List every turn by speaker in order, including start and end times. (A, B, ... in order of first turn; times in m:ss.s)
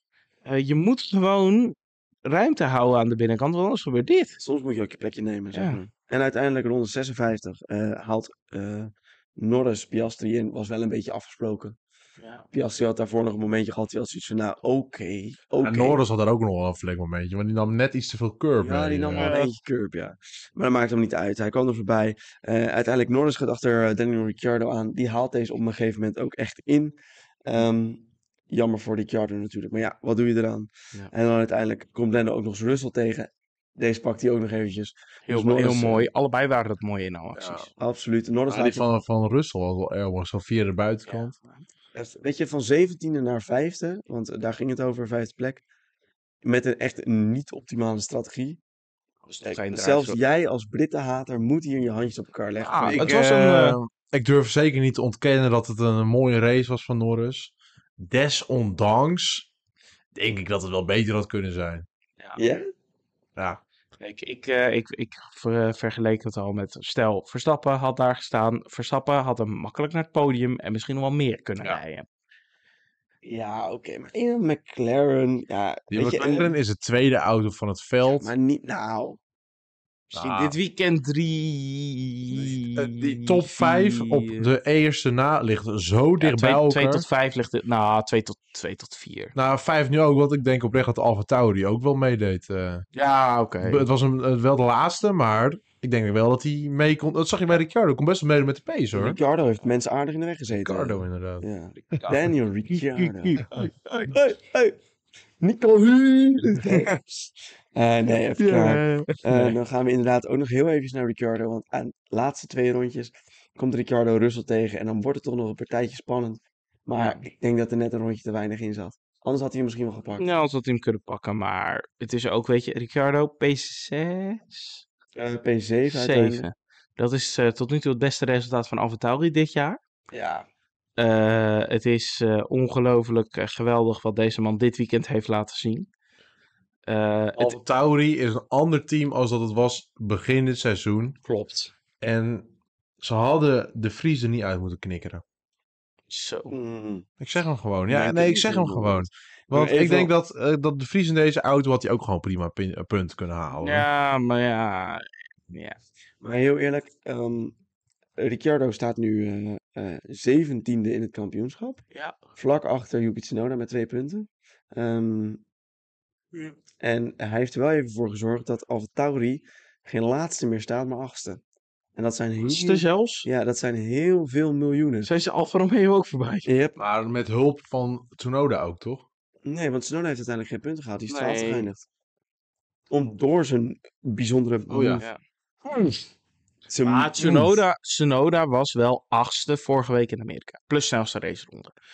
0:00.4-0:04.4 A
0:04.4-0:11.8 B
0:05.5-0:05.8 A
0:12.2-0:12.5 A
0:12.5-0:16.0 B
0:15.6-0:19.4 C
0:18.6-0:36.1 B
0:19.1-0:19.5 A
0:35.3-0:37.7 A
0:37.3-0:37.7 C
0:37.8-0:38.9 B
0:38.5-0:41.3 C
0:41.1-0:41.6 A
0:41.9-0:45.6 B
0:46.4-0:48.6 B
0:49.2-0:50.2 A
0:49.4-0:53.1 B
0:52.6-0:53.8 A
0:52.8-0:59.5 C
1:00.1-1:01.8 C
1:02.4-1:02.6 B
1:03.4-1:03.6 C
1:04.0-1:12.0 A
1:13.2-1:16.5 B
1:15.9-1:18.3 C
1:18.1-1:19.2 B
1:20.1-1:20.6 C
1:20.1-1:24.5 A
1:22.3-1:27.0 C
1:26.2-1:29.3 A
1:29.3-1:32.8 C
1:32.9-1:33.9 A
1:33.6-1:39.2 C
1:38.9-1:44.8 B
1:40.5-1:41.4 C
1:41.9-1:42.2 A
1:42.7-1:43.7 A
1:45.4-1:47.0 B
1:46.6-1:46.9 A
1:47.7-2:00.3 B
1:48.4-1:49.6 A
1:57.0-1:57.2 A
2:00.2-2:04.8 A
2:05.2-2:06.4 B
2:05.9-2:09.8 A
2:10.1-2:10.5 B
2:11.0-2:15.9 A
2:16.9-2:17.6 A
2:17.4-2:21.2 C
2:21.2-2:21.7 A
2:22.0-2:22.5 C
2:23.0-2:25.2 C
2:26.1-2:26.5 A
2:26.5-2:27.0 B
2:27.2-2:33.9 C
2:27.9-2:30.1 B
2:33.6-2:35.8 A
2:36.2-2:37.5 B
2:38.2-2:41.8 B
2:42.3-2:45.4 B
2:46.8-2:51.4 B
2:52.0-2:55.1 B
2:52.4-2:53.2 A
2:55.0-2:56.5 A
2:56.4-2:56.8 B
2:56.8-2:59.0 C
2:59.4-3:01.8 B
3:01.1-3:01.7 A
3:02.9-3:05.0 B
3:04.7-3:05.0 C
3:06.7-3:07.6 B
3:06.8-3:11.7 A